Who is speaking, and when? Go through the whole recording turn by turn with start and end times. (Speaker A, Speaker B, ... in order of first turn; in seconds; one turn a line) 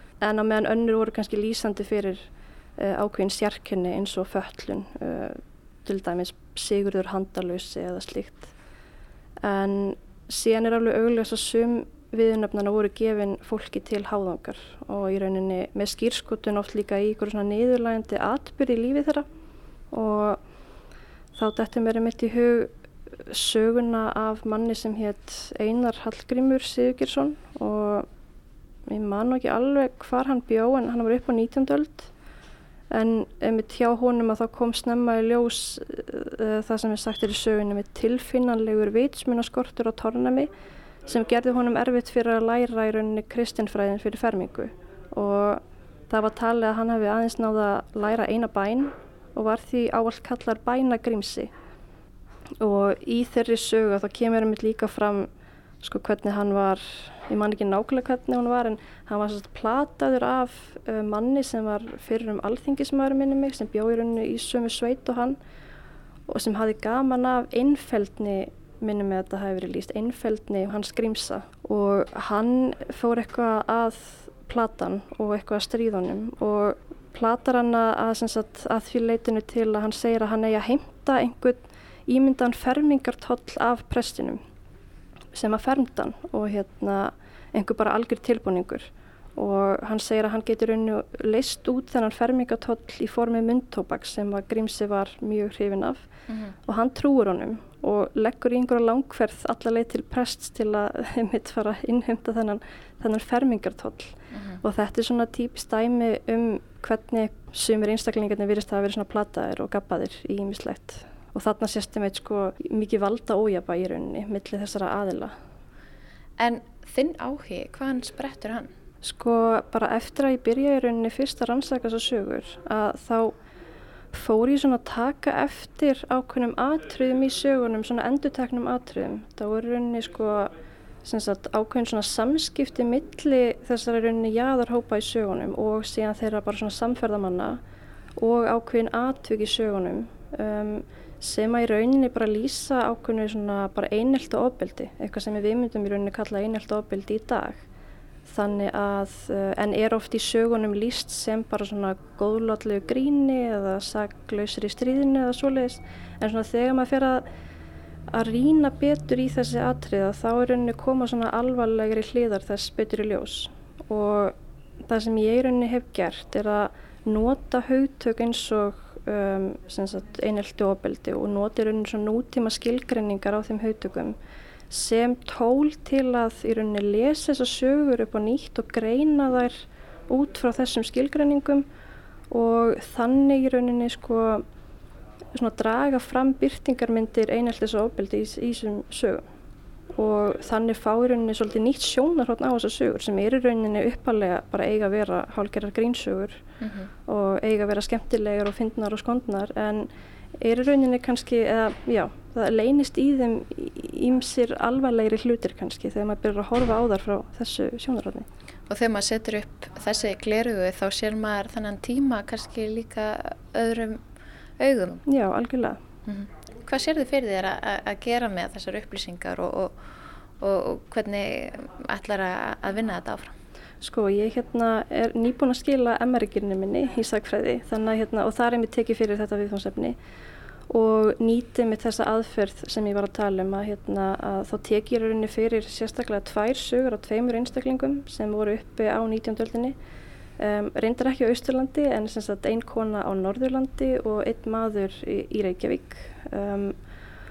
Speaker A: 0.2-2.2
Speaker A: 2.8-8.5
Speaker A: 9.4-19.3
Speaker A: 19.9-20.4
Speaker A: 21.3-28.1
Speaker A: 28.9-32.1
Speaker A: 32.9-40.5
Speaker A: 41.0-51.5
Speaker A: 52.6-55.3
Speaker A: 55.8-65.4
Speaker A: 66.3-84.4
Speaker A: 85.3-96.1
Speaker B: 96.3-96.5
Speaker A: 96.6-115.3
Speaker B: 104.3-104.6
Speaker B: 116.4-118.7
Speaker A: 119.0-123.4
Speaker A: 124.1-130.5
Speaker A: 131.0-137.6
Speaker A: 138.2-147.6
Speaker A: 148.3-157.2
Speaker A: 158.1-174.2
Speaker A: 174.7-181.7
Speaker A: 182.3-184.4
Speaker A: 185.3-189.2
Speaker A: 189.9-196.4
Speaker B: 196.6-196.9
Speaker A: 197.0-208.2
Speaker B: 208.7-214.0
Speaker B: 214.6-215.0
Speaker A: 215.1-215.8
Speaker B: 216.1-219.8
Speaker B: 220.4-223.3
Speaker A: 223.8-230.0
Speaker A: 230.7-239.8
Speaker A: 240.4-246.7